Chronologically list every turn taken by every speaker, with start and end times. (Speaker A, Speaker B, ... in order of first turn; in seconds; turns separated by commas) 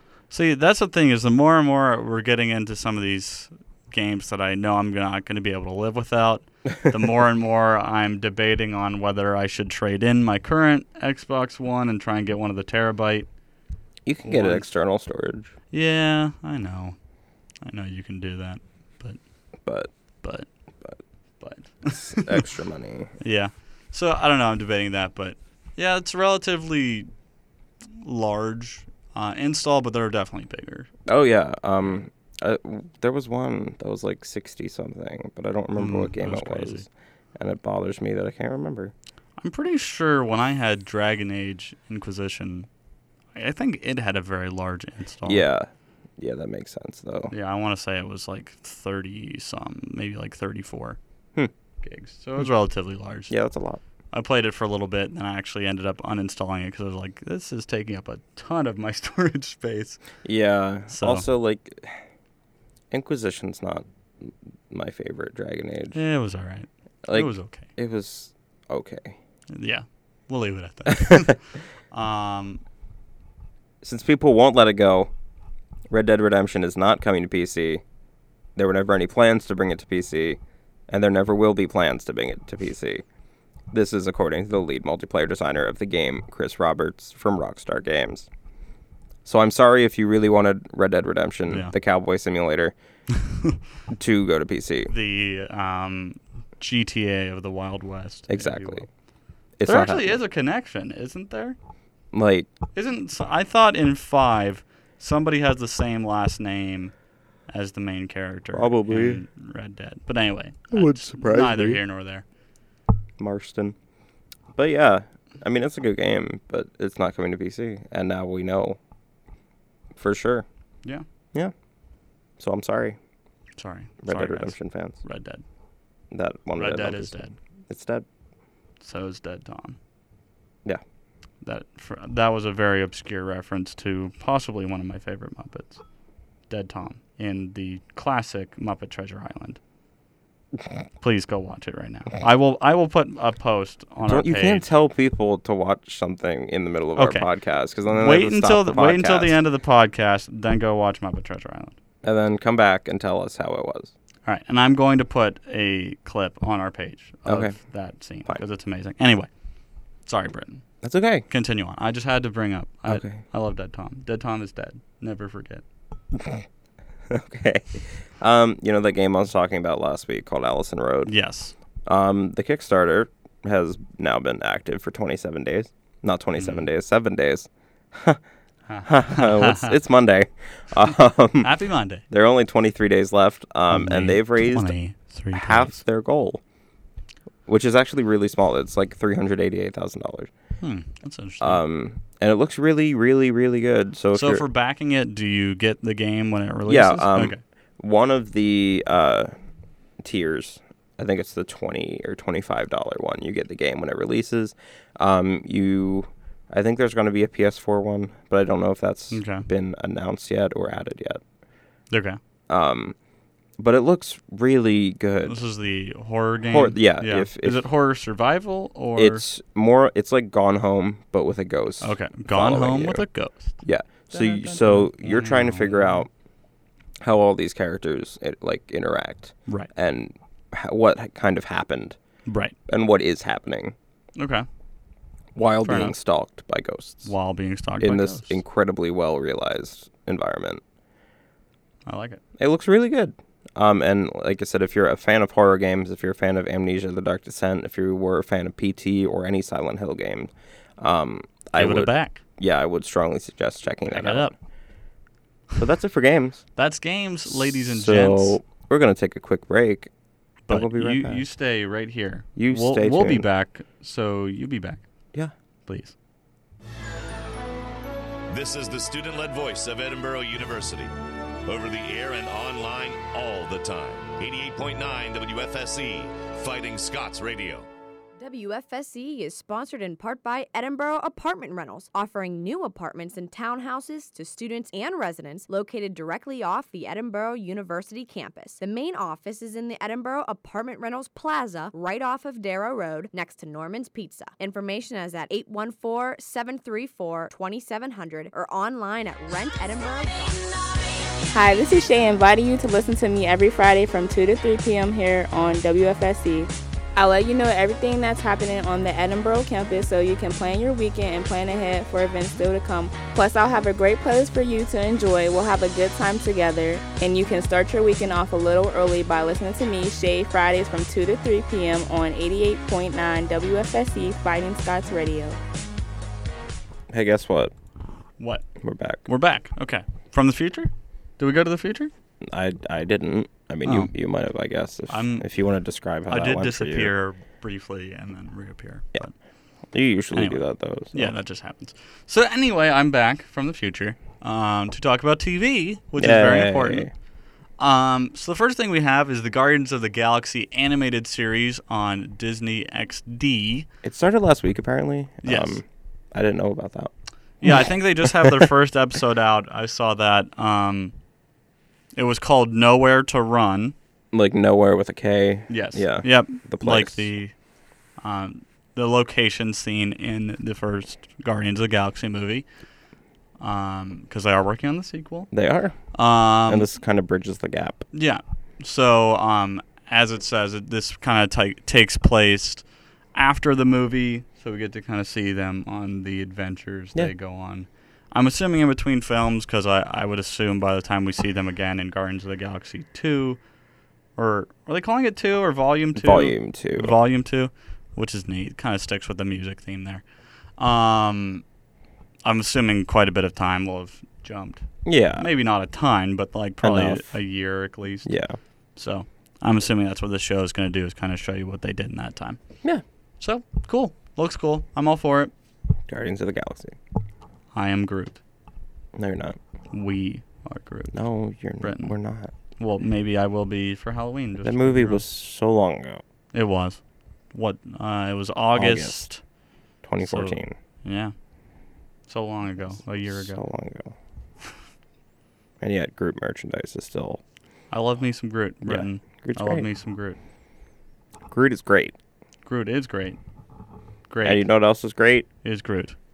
Speaker A: 0.3-13.3, Speaker B: 14.0-15.5, Speaker A: 14.2-14.7, Speaker A: 15.7-17.0, Speaker A: 17.6-19.2, Speaker B: 19.6-19.9, Speaker A: 20.2-20.5, Speaker A: 21.4-22.4, Speaker B: 21.9-23.1, Speaker A: 23.2-27.1, Speaker A: 28.0-30.9, Speaker B: 31.1-38.9, Speaker A: 35.8-36.9, Speaker A: 39.4-42.7, Speaker A: 43.3-45.4, Speaker B: 45.2-47.3, Speaker A: 47.3-51.0, Speaker A: 51.8-53.3, Speaker B: 53.3-53.8, Speaker A: 54.1-60.0, Speaker B: 60.2-62.0, Speaker A: 60.9-61.3, Speaker B: 62.9-66.0, Speaker A: 65.9-67.7, Speaker B: 67.0-69.2, Speaker A: 69.5-72.6, Speaker B: 70.9-71.2, Speaker B: 73.8-75.1, Speaker B: 75.9-77.8, Speaker B: 78.5-83.0, Speaker B: 83.7-88.3, Speaker B: 89.2-92.7, Speaker B: 93.9-94.9, Speaker A: 94.9-98.9, Speaker B: 98.3-98.9, Speaker B: 99.6-100.2, Speaker A: 99.6-101.6, Speaker B: 102.1-102.5, Speaker A: 102.7-106.9, Speaker A: 107.5-112.2, Speaker B: 108.5-109.2, Speaker B: 110.7-111.8, Speaker B: 113.2-113.8, Speaker B: 114.5-118.8, Speaker B: 120.0-120.5, Speaker B: 122.4-123.0, Speaker A: 123.6-125.4, Speaker B: 124.0-125.0, Speaker B: 126.1-128.1, Speaker A: 126.5-127.3, Speaker A: 128.8-129.8, Speaker A: 131.4-135.8, Speaker A: 136.5-139.6, Speaker A: 141.0-144.7, Speaker B: 144.0-149.4, Speaker A: 146.9-147.3, Speaker A: 147.9-151.7, Speaker B: 152.0-153.9, Speaker A: 154.2-159.3, Speaker B: 157.2-157.6, Speaker A: 160.1-160.6, Speaker B: 160.8-161.2, Speaker A: 161.3-165.6, Speaker B: 162.8-163.2, Speaker B: 166.1-166.4, Speaker B: 167.1-171.1, Speaker A: 171.1-171.5, Speaker B: 171.8-178.2, Speaker A: 176.4-176.7, Speaker A: 178.7-179.7, Speaker B: 178.8-181.5, Speaker A: 181.4-182.0, Speaker B: 182.1-184.7, Speaker A: 183.7-185.8, Speaker B: 185.3-186.4, Speaker B: 187.5-190.3, Speaker A: 190.6-191.6, Speaker B: 191.4-194.4, Speaker A: 194.1-197.4, Speaker B: 196.7-199.3, Speaker B: 200.0-211.2, Speaker A: 209.1-209.5, Speaker A: 211.9-212.2, Speaker B: 212.5-212.9, Speaker B: 213.6-215.4, Speaker A: 215.2-219.2, Speaker B: 216.5-217.6, Speaker B: 218.9-223.1, Speaker A: 221.8-226.1, Speaker B: 223.6-226.1, Speaker B: 227.0-232.0, Speaker A: 232.3-232.5, Speaker B: 232.7-233.7, Speaker A: 234.2-234.4, Speaker B: 235.3-237.1, Speaker A: 235.6-235.9, Speaker A: 237.0-238.4, Speaker B: 237.8-240.6, Speaker A: 241.8-242.2, Speaker B: 242.4-254.3, Speaker A: 251.6-252.2, Speaker A: 253.9-254.3, Speaker B: 255.6-256.4, Speaker A: 256.6-258.4, Speaker B: 257.2-259.9, Speaker A: 260.5-264.8, Speaker B: 260.5-261.2, Speaker B: 262.4-263.3, Speaker A: 265.7-265.9, Speaker C: 268.3-270.9, Speaker C: 271.4-277.7, Speaker D: 278.2-300.6, Speaker E: 301.3-325.4, Speaker B: 326.9-327.5, Speaker A: 328.2-328.4, Speaker B: 328.6-329.0, Speaker A: 329.1-331.9, Speaker B: 332.2-336.9, Speaker A: 333.6-333.9, Speaker A: 334.9-335.2, Speaker A: 336.1-339.1, Speaker B: 339.7-341.1, Speaker A: 340.1-346.9, Speaker B: 346.0-346.9, Speaker A: 347.6-353.7, Speaker B: 353.8-356.9, Speaker A: 355.2-355.6, Speaker A: 357.4-360.9, Speaker B: 357.4-358.5, Speaker A: 361.9-363.7, Speaker B: 364.1-367.1, Speaker A: 365.5-367.3, Speaker A: 368.0-372.4, Speaker A: 373.4-375.3, Speaker B: 375.3-375.8, Speaker A: 375.9-376.7, Speaker B: 376.4-377.8, Speaker A: 377.9-393.4, Speaker A: 394.1-400.0, Speaker B: 395.9-396.9, Speaker A: 400.6-401.4, Speaker A: 402.2-404.6, Speaker B: 404.8-405.3, Speaker A: 405.1-408.1, Speaker B: 406.6-407.1, Speaker B: 408.0-408.4, Speaker A: 408.8-412.4, Speaker A: 413.2-415.3, Speaker B: 415.9-416.8, Speaker A: 417.5-418.2, Speaker B: 418.9-419.4, Speaker A: 419.7-421.0, Speaker B: 420.9-422.3, Speaker A: 421.6-421.9, Speaker A: 422.6-425.0, Speaker B: 424.4-426.0, Speaker A: 426.3-429.2, Speaker B: 428.5-429.1, Speaker B: 429.8-430.6, Speaker A: 430.0-431.1, Speaker A: 432.1-433.4, Speaker B: 432.6-433.9, Speaker B: 435.6-437.2, Speaker A: 437.7-440.2, Speaker B: 438.6-439.7, Speaker B: 441.3-441.9, Speaker A: 442.4-443.2, Speaker A: 444.1-444.4, Speaker B: 444.2-445.3, Speaker A: 445.4-445.9